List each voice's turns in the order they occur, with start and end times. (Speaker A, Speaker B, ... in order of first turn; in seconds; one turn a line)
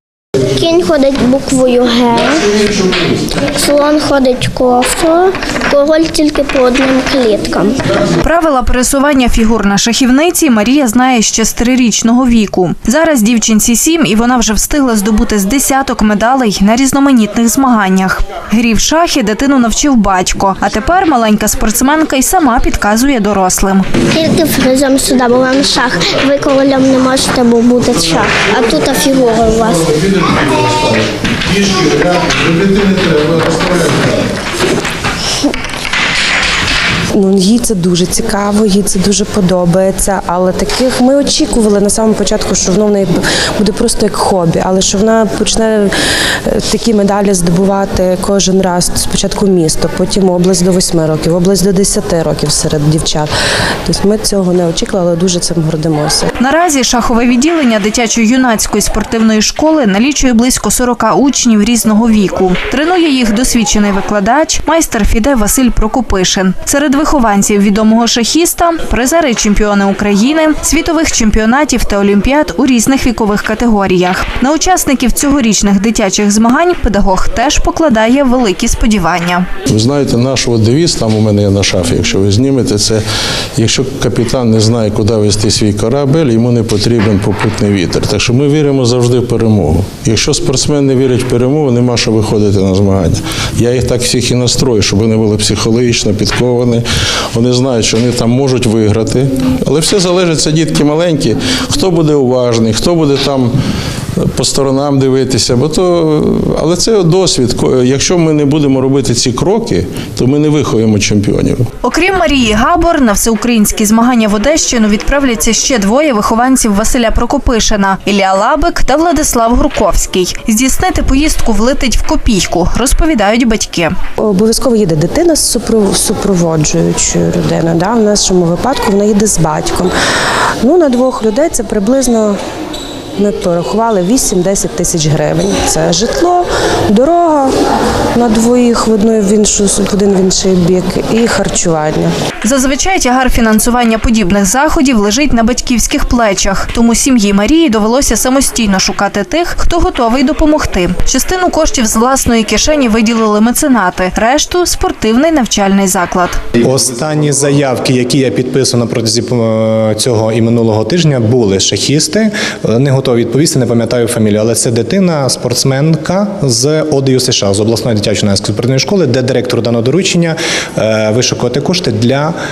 Speaker A: 0.6-2.3
Speaker B: 2.5-3.1
Speaker A: 3.6-7.7
Speaker C: 8.2-23.9
Speaker A: 24.1-29.6
Speaker B: 29.6-34.3
Speaker D: 37.1-45.9
Speaker D: 46.5-53.3
Speaker D: 53.9-56.3
Speaker C: 56.4-79.5
Speaker B: 79.7-83.0
Speaker B: 83.6-103.5
Speaker B: 104.2-111.7
Speaker C: 111.8-124.0
Speaker D: 124.2-129.9
Speaker D: 130.6-132.4
Speaker D: 133.2-137.5
Speaker D: 138.2-142.1
Speaker C: 142.4-156.4
Speaker E: 156.6-172.4